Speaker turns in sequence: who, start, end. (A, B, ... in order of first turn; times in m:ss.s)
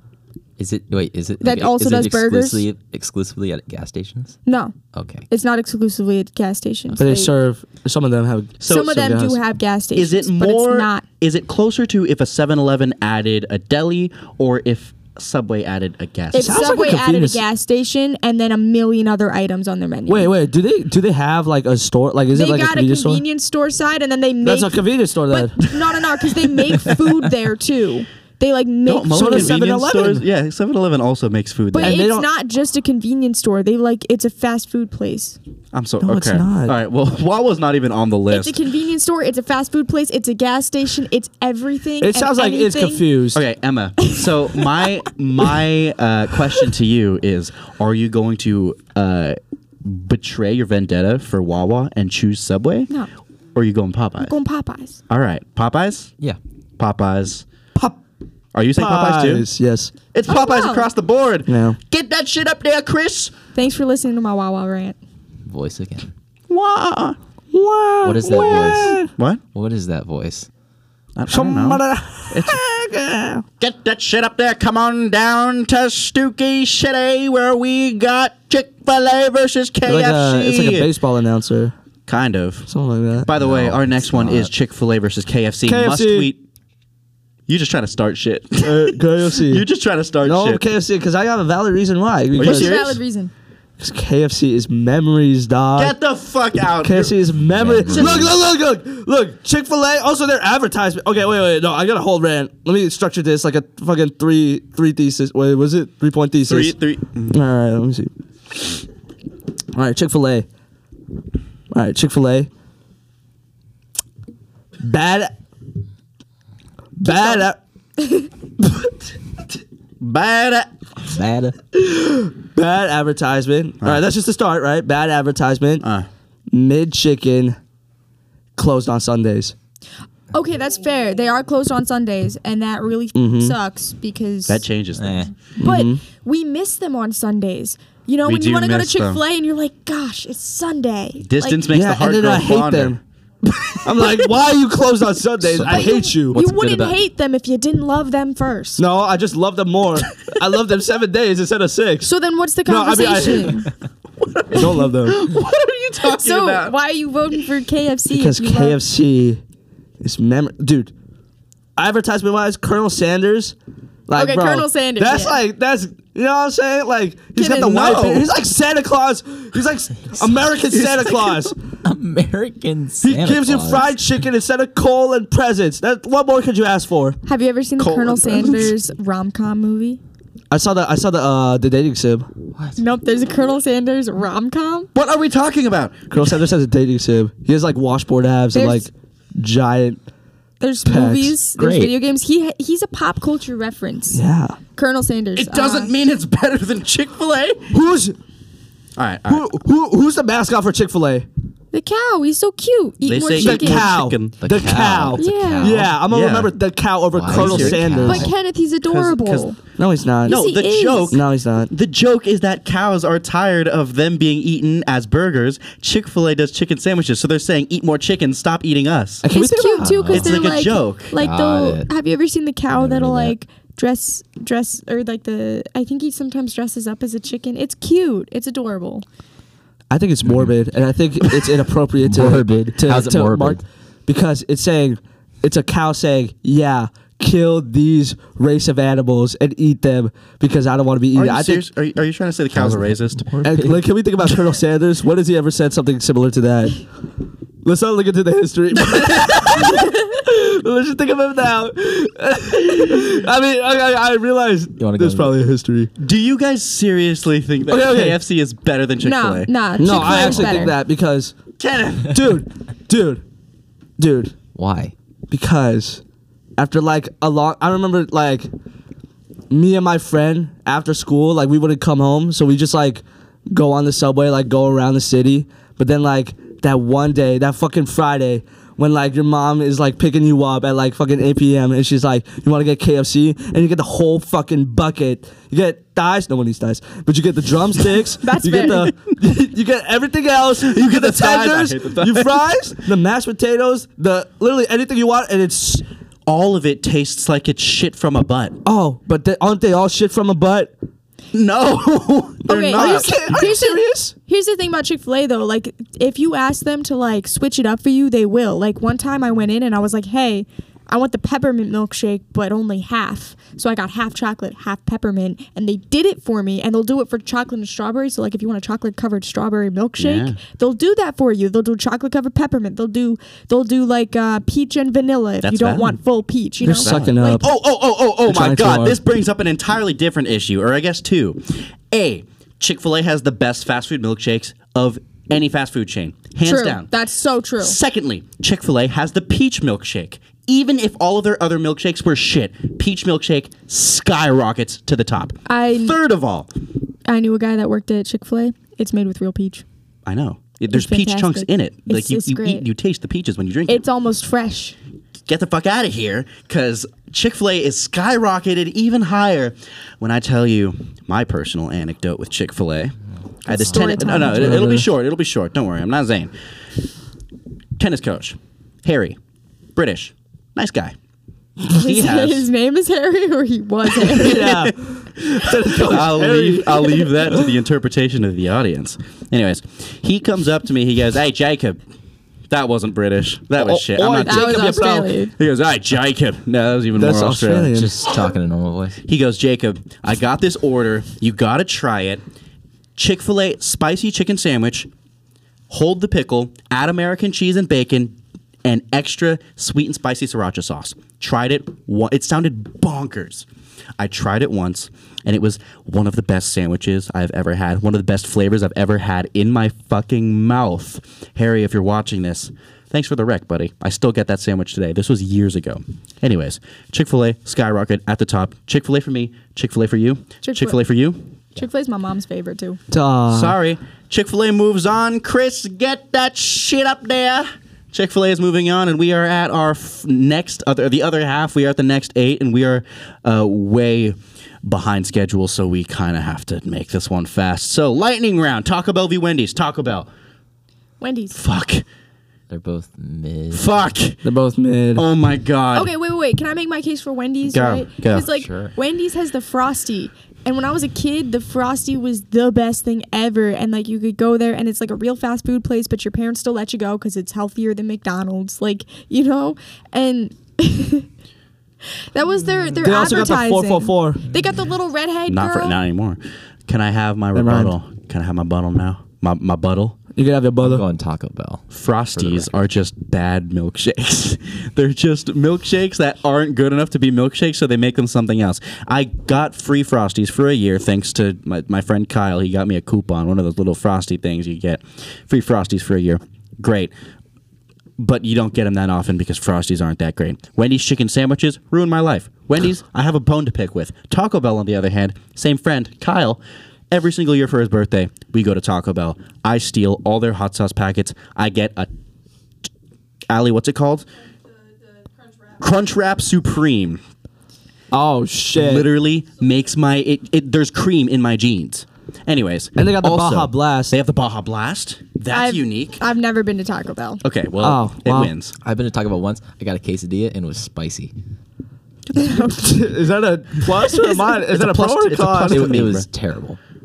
0:00.6-0:04.4 A
0:01.4-0:02.6 B
0:04.5-0:04.8 B
0:04.9-0:05.2 A
0:05.3-0:07.3 B
0:07.0-0:09.4 C
0:08.6-0:09.0 D
0:08.6-0:11.0 B
0:10.0-0:16.7 D
0:16.3-0:20.3 B
0:16.4-0:17.4 C
0:20.1-0:23.2 C
0:22.3-0:29.6 B
0:24.4-0:25.7 C
0:28.9-0:32.0 D
0:29.1-0:30.3 C
0:31.8-0:35.4 B
0:31.8-0:32.3 C
0:35.7-0:38.6 D
0:36.0-0:36.8 C
0:38.3-0:43.1 B
0:42.0-0:43.4 C
0:43.3-0:52.9 D
0:53.6-0:54.4 D
0:54.2-0:55.0 B
0:55.1-0:56.1 D
0:56.8-0:57.5 D
0:57.8-0:58.0 C
0:58.5-0:59.5 D
0:58.7-0:59.9 C
1:00.1-1:03.3 D
1:00.3-1:00.9 B
1:01.5-1:01.8 C
1:03.5-1:05.0 B
1:05.5-1:06.1 A
1:06.5-1:07.2 D
1:07.5-1:09.1 C
1:08.0-1:09.0 A
1:09.5-1:10.5 A
1:11.2-1:12.6 D
1:11.3-1:13.4 C
1:13.6-1:20.9 D
1:19.8-1:21.8 C
1:22.1-1:22.7 D
1:22.7-1:23.3 C
1:23.2-1:26.4 D
1:23.4-1:24.5 A
1:25.6-1:26.3 C
1:27.5-1:30.6 D
1:28.6-1:29.7 C
1:30.2-1:32.8 C
1:32.4-1:33.0 D
1:32.4-1:33.3 B
1:33.8-1:36.0 C
1:35.8-1:37.2 D
1:36.8-1:46.8 C
1:37.5-1:38.3 A
1:37.8-1:38.3 D
1:46.5-1:47.4 D
1:47.3-1:48.1 C
1:49.7-1:50.5 C
1:51.7-1:52.5 C
1:54.8-1:55.4 C
1:57.0-1:57.6 C
1:57.0-1:57.4 B
2:00.0-2:00.8 D
2:01.1-2:01.6 A
2:01.7-2:05.8 C
2:05.8-2:06.1 D
2:06.5-2:07.6 C
2:08.6-2:09.6 C
2:10.3-2:14.7 B
2:13.2-2:13.6 C
2:14.5-2:15.3 D
2:15.0-2:15.3 A
2:15.6-2:16.0 C
2:15.6-2:21.6 B
2:18.2-2:19.2 D
2:21.2-2:23.0 D
2:21.7-2:23.0 C
2:23.8-2:26.4 C
2:25.6-2:28.8 B
2:26.3-2:27.0 A
2:28.8-2:32.1 C
2:32.0-2:33.7 B
2:32.7-2:33.7 C
2:34.2-2:36.7 D
2:34.5-2:35.2 C
2:36.0-2:38.8 B
2:38.1-2:39.4 C
2:40.0-2:40.9 C
2:41.8-2:43.6 C
2:44.1-2:51.6 C
2:44.2-2:45.4 B
2:47.4-2:47.9 B
2:47.5-2:48.3 D
2:50.8-2:51.3 D
2:51.8-2:53.9 A
2:53.0-2:57.2 C
2:57.2-3:00.0 B
2:57.8-2:58.7 D
3:00.5-3:02.3 C
3:02.8-3:04.9 B
3:04.9-3:06.4 D
3:06.1-3:10.0 C
3:08.5-3:08.9 B
3:10.6-3:14.2 B
3:10.8-3:11.4 C
3:11.6-3:12.0 A
3:14.1-3:14.6 C
3:14.8-3:15.9 B
3:15.4-3:17.7 D
3:17.7-3:18.2 C
3:19.0-3:19.6 D
3:19.3-3:21.3 C
3:21.7-3:23.9 B
3:23.0-3:24.9 D
3:23.4-3:28.3 C
3:24.4-3:26.0 A
3:25.2-3:25.8 B
3:25.9-3:26.5 D
3:27.1-3:28.3 A
3:27.3-3:27.9 D
3:28.0-3:29.6 B
3:28.9-3:29.6 D
3:29.8-3:30.4 C
3:30.2-3:31.2 B
3:30.2-3:39.2 D
3:31.1-3:31.7 C
3:39.2-3:40.1 C
3:39.3-3:49.0 B
3:39.8-3:40.5 A
3:40.1-3:41.1 D
3:41.2-3:41.9 A
3:42.8-3:43.4 A
3:49.9-4:01.6 C
3:50.2-3:50.5 A
3:52.0-3:53.6 A
4:01.1-4:03.3 D
4:02.5-4:03.8 A
4:03.4-4:06.8 C
4:07.6-4:15.9 C
4:14.8-4:15.4 A
4:16.0-4:20.5 D
4:17.7-4:18.2 C
4:19.0-4:20.8 B
4:19.8-4:21.4 C
4:21.6-4:22.2 D
4:22.1-4:23.2 C
4:24.0-4:24.4 C
4:24.6-4:24.9 A
4:25.3-4:26.0 C
4:26.6-4:28.5 C
4:29.5-4:55.9 C
4:48.2-4:48.9 B
4:50.6-4:52.4 D
4:56.3-4:58.6 D
4:58.6-5:00.7 C
5:01.3-5:03.4 D
5:02.5-5:27.5 B
5:02.7-5:04.1 C
5:20.0-5:20.4 D
5:25.4-5:26.0 D
5:26.6-5:27.5 C
5:26.6-5:36.9 D
5:28.2-5:29.0 C
5:36.4-5:37.8 B
5:37.6-5:46.5 D
5:45.5-5:46.0 B
5:47.1-5:49.6 B
5:50.1-5:53.8 D
5:50.7-5:52.7 B
5:53.7-5:54.8 B
5:55.3-6:03.0 D
6:03.5-6:04.6 B
6:03.5-6:06.3 D
6:04.0-6:04.9 C
6:07.8-6:09.2 D
6:09.8-6:11.0 D
6:11.7-6:12.5 D
6:11.7-6:14.6 B
6:14.0-6:17.6 C
6:14.3-6:14.7 D
6:15.7-6:21.8 D
6:22.5-6:27.7 D
6:23.6-6:25.1 C
6:24.2-6:25.3 B
6:27.0-6:28.0 C
6:27.7-6:29.0 A
6:29.1-6:32.2 D
6:33.0-6:34.9 D
6:35.7-6:43.5 D
6:44.0-7:01.3 D
7:00.4-7:00.8 B
7:01.6-7:02.8 B
7:02.9-7:03.6 C
7:03.3-7:20.1 D
7:21.0-7:21.4 B
7:21.3-7:21.8 D
7:22.5-7:23.8 A
7:23.5-7:24.2 D
7:24.2-7:25.1 C
7:24.9-7:25.9 D
7:25.7-7:41.1 B
7:27.5-7:28.3 D
7:28.4-7:28.7 A
7:42.1-7:45.8 B
7:42.8-7:44.2 C
7:45.3-7:50.0 D
7:47.3-7:47.8 C
7:50.2-7:50.8 C
7:50.6-7:52.7 A
7:51.7-8:06.9 D
8:08.0-8:21.9 D
8:23.3-8:24.1 D
8:25.6-8:27.0 D
8:27.9-8:28.9 C
8:28.6-8:36.0 D
8:32.8-8:34.0 C
8:35.3-8:37.2 B
8:37.2-8:38.6 D
8:37.6-8:38.3 C
8:38.6-8:41.1 A
8:42.1-8:42.5 D
8:42.2-8:42.7 B
8:42.5-8:45.8 C
8:44.5-8:46.1 D
8:45.5-8:46.6 A